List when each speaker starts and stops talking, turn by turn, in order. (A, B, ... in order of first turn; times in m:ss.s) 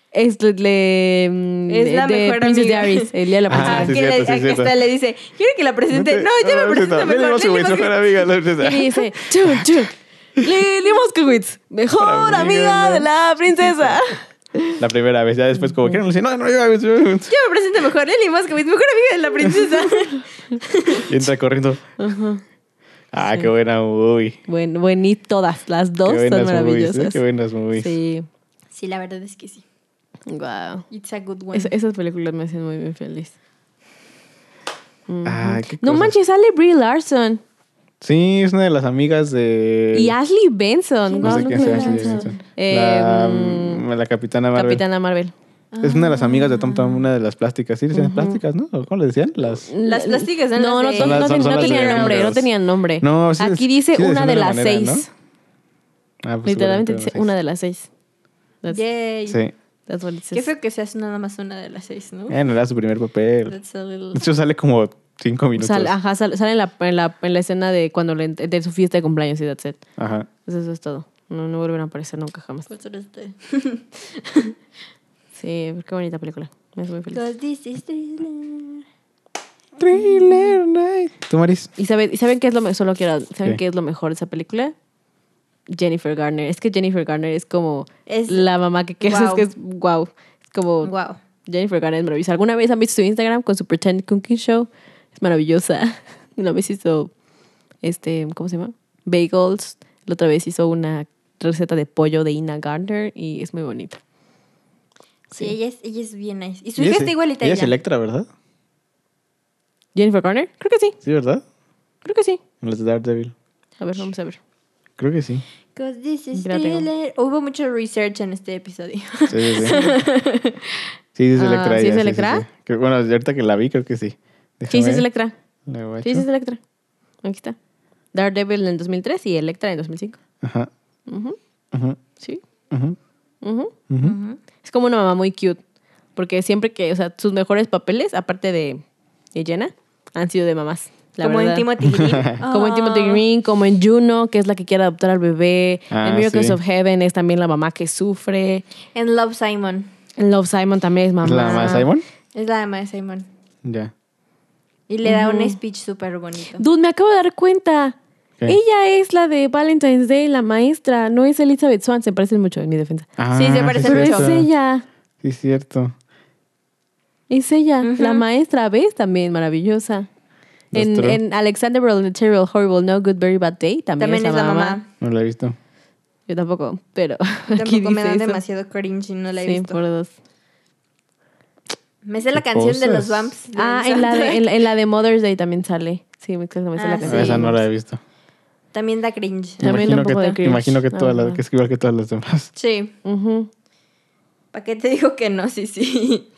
0:00.1-0:04.0 A
0:01.7-0:08.3 B
0:03.5-0:04.7 C
0:05.9-0:09.7 C
0:08.6-0:14.8 A
0:12.0-0:13.1 C
0:13.7-0:14.0 C
0:14.8-0:17.3 C
0:17.3-0:21.1 B
0:21.0-0:21.9 C
0:22.0-0:22.4 A
0:23.1-0:24.4 C
0:23.2-0:23.5 A
0:24.5-0:27.2 A
0:26.0-0:27.9 C
0:27.8-0:28.3 A
0:28.7-0:29.6 B
0:30.3-0:30.8 A
0:30.9-0:31.7 B
0:31.5-0:33.3 A
0:35.1-0:37.4 A
0:35.2-0:36.1 C
0:38.0-0:40.2 C
0:39.9-0:43.8 A
0:41.1-0:42.4 B
0:41.2-0:44.8 C
0:44.5-0:45.3 A
0:45.7-0:47.1 B
0:45.8-0:49.7 C
0:47.9-0:48.4 A
0:49.6-0:55.1 A
0:49.8-0:52.3 B
0:51.0-0:52.5 C
0:53.0-0:55.1 C
0:56.2-0:57.3 C
0:56.4-0:57.9 A
0:58.7-0:59.4 B
0:59.3-0:59.5 C
0:59.9-1:00.5 A
1:00.3-1:02.4 B
1:02.3-1:03.6 C
1:03.5-1:04.2 B
1:04.1-1:05.9 C
1:05.6-1:09.8 A
1:10.0-1:10.3 C
1:10.4-1:12.7 A
1:12.7-1:14.6 B
1:15.4-1:17.2 A
1:17.1-1:18.8 B
1:19.8-1:21.7 C
1:19.9-1:20.6 B
1:21.8-1:24.7 A
1:25.7-1:30.9 A
1:28.1-1:28.5 B
1:29.0-1:29.5 B
1:30.8-1:31.2 B
1:31.5-1:37.1 A
1:37.8-1:44.0 A
1:45.3-1:47.7 B
1:46.8-1:48.3 C
1:50.0-1:51.0 A
1:51.0-1:51.4 C
1:52.0-1:52.4 A
1:52.6-1:53.3 C
1:53.8-1:54.4 A
1:55.0-1:55.4 C
1:55.8-2:00.9 B
1:56.4-1:56.9 A
1:59.3-1:59.9 C
2:01.2-2:05.1 C
2:01.4-2:02.5 A
2:04.7-2:05.3 A
2:05.7-2:06.3 C
2:06.0-2:06.6 A
2:07.2-2:07.6 A
2:08.1-2:10.2 A
2:10.4-2:10.7 C
2:11.1-2:11.4 A
2:11.7-2:12.0 C
2:12.7-2:13.0 C
2:13.4-2:13.7 A
2:13.9-2:14.2 C
2:14.0-2:14.4 B
2:14.6-2:15.6 A
2:16.2-2:18.8 A
2:19.3-2:21.7 A
2:21.2-2:23.2 B
2:21.8-2:22.4 C
2:22.4-2:28.6 A
2:25.9-2:26.6 C
2:29.0-2:29.9 B
2:30.2-2:31.9 A
2:31.2-2:32.0 C
2:32.3-2:33.3 B
2:33.6-2:33.9 C
2:34.9-2:36.6 B
2:35.0-2:35.6 A
2:36.6-2:43.1 A
2:43.2-2:44.5 C
2:43.3-2:44.4 B
2:43.8-2:44.8 A
2:45.2-2:46.0 C
2:47.3-2:50.1 A
2:47.8-2:48.2 B
2:50.7-2:51.2 C
2:50.7-2:54.8 A
2:54.0-2:54.9 B
2:55.0-2:55.6 C
2:56.3-2:58.4 A
2:57.5-2:59.8 B
2:59.4-3:00.1 A
3:02.0-3:04.5 B
3:02.3-3:03.3 C
3:03.5-3:07.6 A
3:06.8-3:07.5 B
3:07.0-3:08.0 C
3:08.7-3:09.8 B
3:09.6-3:11.4 A
3:09.6-3:12.5 C
3:12.6-3:12.9 B
3:13.0-3:13.5 A
3:14.5-3:16.3 B